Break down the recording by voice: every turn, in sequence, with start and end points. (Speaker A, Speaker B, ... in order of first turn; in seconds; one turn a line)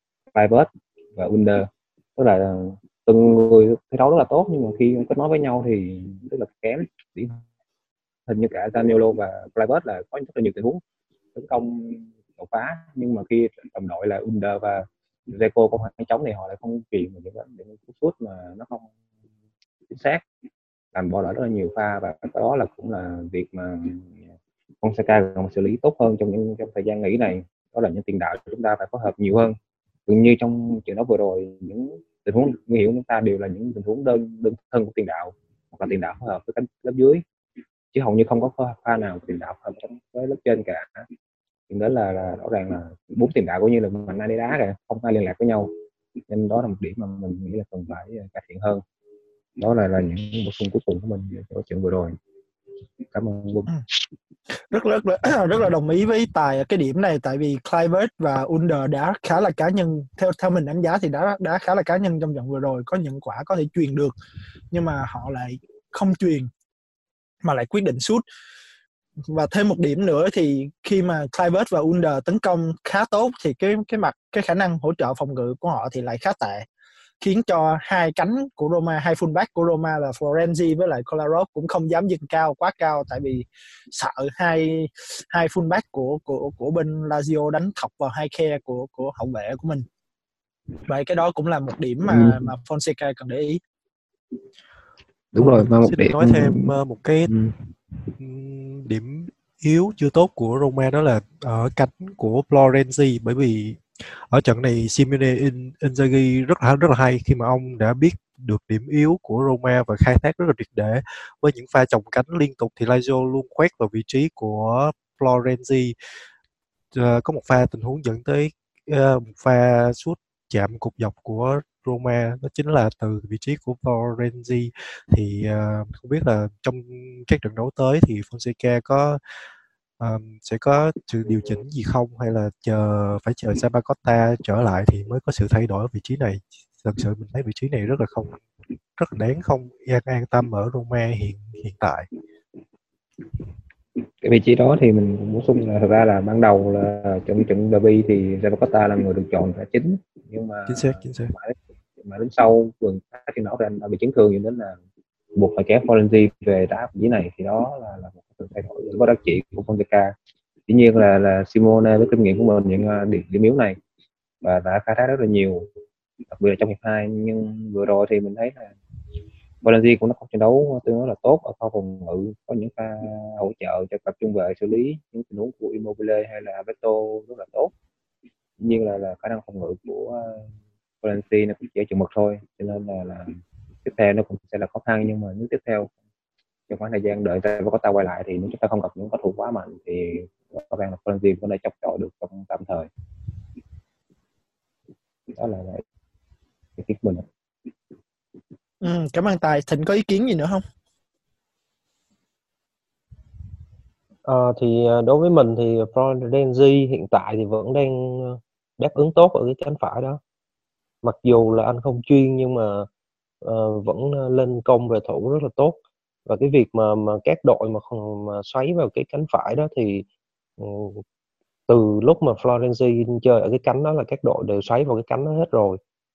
Speaker A: 0.3-7.4
Speaker A: 8.3-10.8
Speaker A: 11.3-18.9
Speaker A: 19.9-20.2
Speaker A: 20.9-24.3
Speaker A: 24.8-29.6
Speaker A: 30.1-37.2
Speaker A: 37.9-41.1
Speaker A: 41.7-45.7
Speaker A: 46.3-48.8
Speaker A: 49.6-52.1
Speaker A: 53.1-53.7
Speaker B: 54.7-64.1
Speaker B: 64.7-66.5
Speaker B: 67.4-68.2
Speaker B: 69.3-76.7
Speaker B: 77.2-89.8
Speaker B: 90.9-93.6
Speaker A: 92.1-92.5
Speaker A: 95.3-96.7
Speaker C: 95.4-97.3
Speaker A: 97.3-97.5
Speaker C: 98.2-115.9
Speaker C: 116.9-129.2
Speaker C: 130.0-138.4
Speaker C: 139.0-142.1
Speaker A: 144.2-154.8
Speaker C: 150.7-151.3
Speaker A: 155.3-160.1
Speaker A: 160.7-163.8
Speaker A: 164.4-165.7
Speaker A: 166.3-168.7
Speaker A: 169.6-177.7
Speaker A: 178.6-180.5
Speaker A: 181.0-185.9
Speaker A: 186.7-192.9
Speaker A: 195.3-195.8
Speaker A: 196.8-197.2
Speaker B: 198.8-200.6
Speaker D: 204.2-210.2
Speaker D: 211.0-212.9
Speaker D: 213.4-220.1
Speaker D: 220.6-221.0
Speaker D: 221.7-225.8